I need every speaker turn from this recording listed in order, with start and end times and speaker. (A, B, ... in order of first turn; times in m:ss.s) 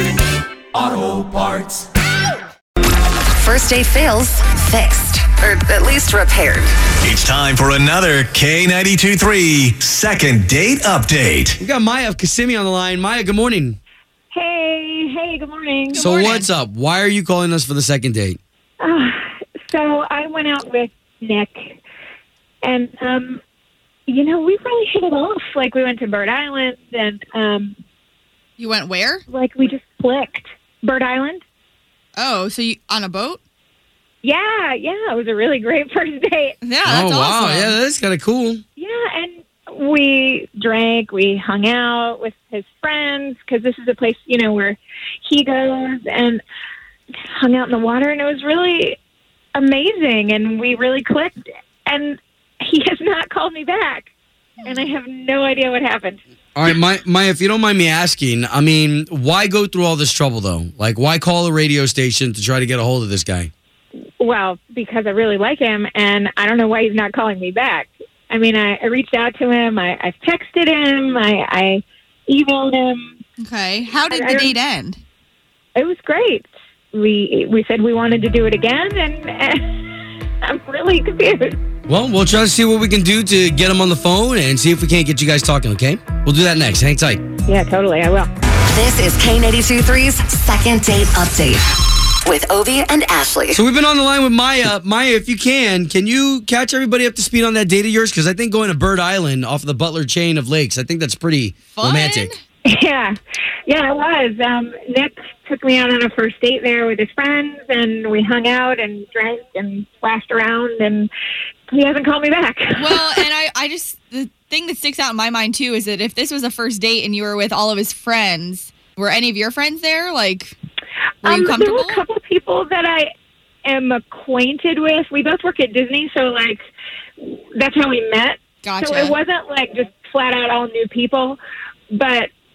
0:00.7-0:01.8 A
0:03.4-0:06.7 B
0:07.0-0:11.6 C
0:11.6-0:13.8 A
0:14.3-0:16.1 D
0:15.9-0:16.5 E
0:15.9-0:18.4 A
0:18.8-0:21.8 D
0:22.6-0:23.4 D
0:24.1-0:27.8 D
0:28.6-0:29.2 E
0:29.3-0:31.4 D
0:32.2-0:33.4 E
0:34.2-0:36.6 D
0:36.6-0:37.8 E
0:36.8-0:38.6 A
0:38.8-0:46.4 D
0:47.3-0:49.0 D
0:49.5-0:54.1 D
0:54.6-0:54.9 E
0:54.6-0:56.2 D
0:56.6-1:03.5 A
1:04.2-1:13.2 D
1:13.4-1:15.0 E
1:14.1-1:14.5 D
1:15.8-1:19.6 D
1:20.4-1:21.6 D
1:21.9-1:27.2 A
1:27.4-1:28.3 D
1:28.7-1:31.6 B
1:32.2-1:33.6 B
1:33.5-1:42.3 A
1:41.7-1:42.4 E
1:42.6-1:43.2 D
1:43.7-1:51.1 D
1:51.7-1:53.2 D
1:52.8-2:00.5 E
2:01.2-2:02.0 E
2:01.2-2:03.1 D
2:03.6-2:06.6 D
2:07.2-2:11.4 D
2:08.6-2:09.2 E
2:11.9-2:12.3 D